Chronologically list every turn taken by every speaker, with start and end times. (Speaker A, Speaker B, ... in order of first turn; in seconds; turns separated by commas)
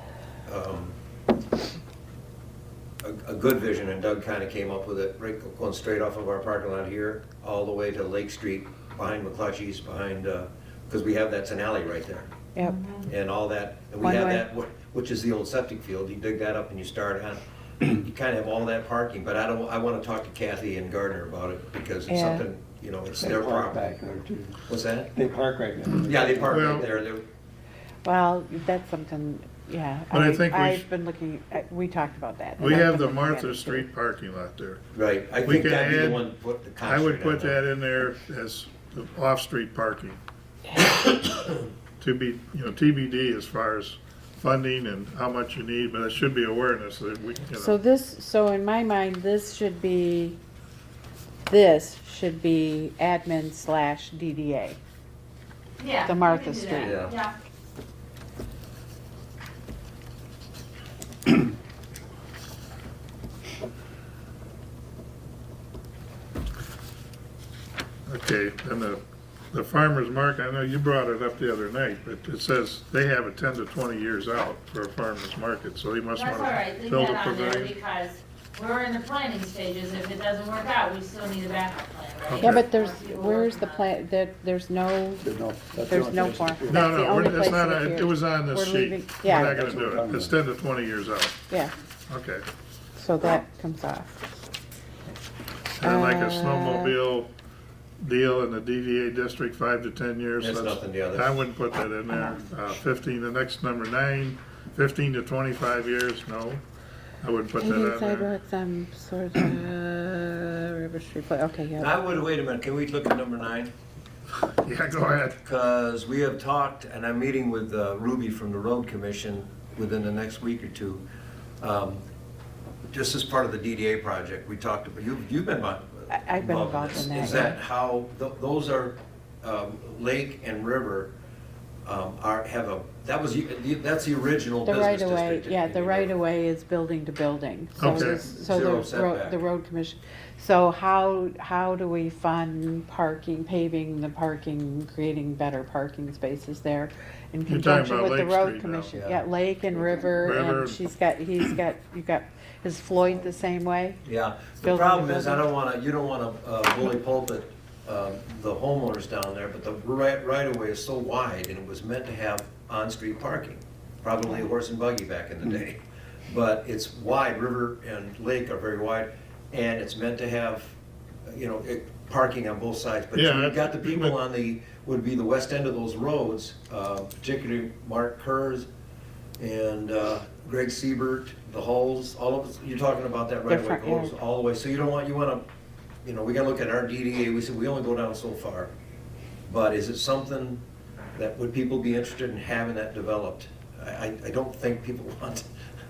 Speaker A: 0.5-1.0, Speaker A: 3.0-12.3, Speaker B: 12.6-13.1, Speaker A: 13.1-24.0, Speaker C: 14.0-14.4, Speaker C: 22.1-22.5, Speaker D: 23.1-26.7, Speaker A: 24.7-25.1, Speaker A: 26.0-27.2, Speaker E: 26.5-26.9, Speaker C: 28.0-33.9, Speaker E: 30.1-30.9, Speaker E: 32.6-34.8, Speaker A: 34.9-37.6, Speaker E: 35.4-36.2, Speaker E: 36.8-40.2, Speaker E: 42.0-47.8, Speaker C: 47.5-50.4, Speaker C: 51.5-54.8, Speaker B: 55.8-57.3, Speaker C: 56.0-57.0, Speaker A: 56.8-57.1, Speaker E: 68.1-69.0, Speaker E: 69.5-77.7, Speaker B: 76.1-83.9, Speaker E: 82.3-82.6, Speaker C: 82.4-85.3, Speaker D: 85.2-87.2, Speaker C: 85.9-89.8, Speaker E: 86.7-91.4, Speaker D: 89.3-90.4, Speaker E: 92.1-92.5, Speaker C: 93.0-94.3, Speaker E: 95.8-97.3, Speaker C: 95.8-97.0, Speaker E: 98.0-106.6, Speaker A: 100.4-101.4, Speaker C: 102.1-102.4, Speaker E: 107.2-108.3, Speaker C: 107.6-112.2, Speaker A: 111.8-113.7, Speaker E: 114.5-115.4, Speaker A: 115.4-121.0, Speaker A: 121.6-122.0, Speaker A: 122.9-131.1, Speaker C: 126.1-127.6, Speaker A: 131.8-136.1, Speaker C: 134.7-154.0, Speaker E: 137.8-138.2, Speaker A: 137.8-139.4, Speaker E: 147.5-148.9, Speaker A: 148.9-149.2, Speaker E: 150.2-150.8, Speaker A: 154.0-178.7, Speaker C: 154.6-155.4, Speaker E: 173.2-174.1, Speaker A: 179.4-185.4, Speaker C: 183.5-184.1, Speaker A: 186.0-188.7, Speaker A: 189.5-190.6, Speaker A: 191.2-195.5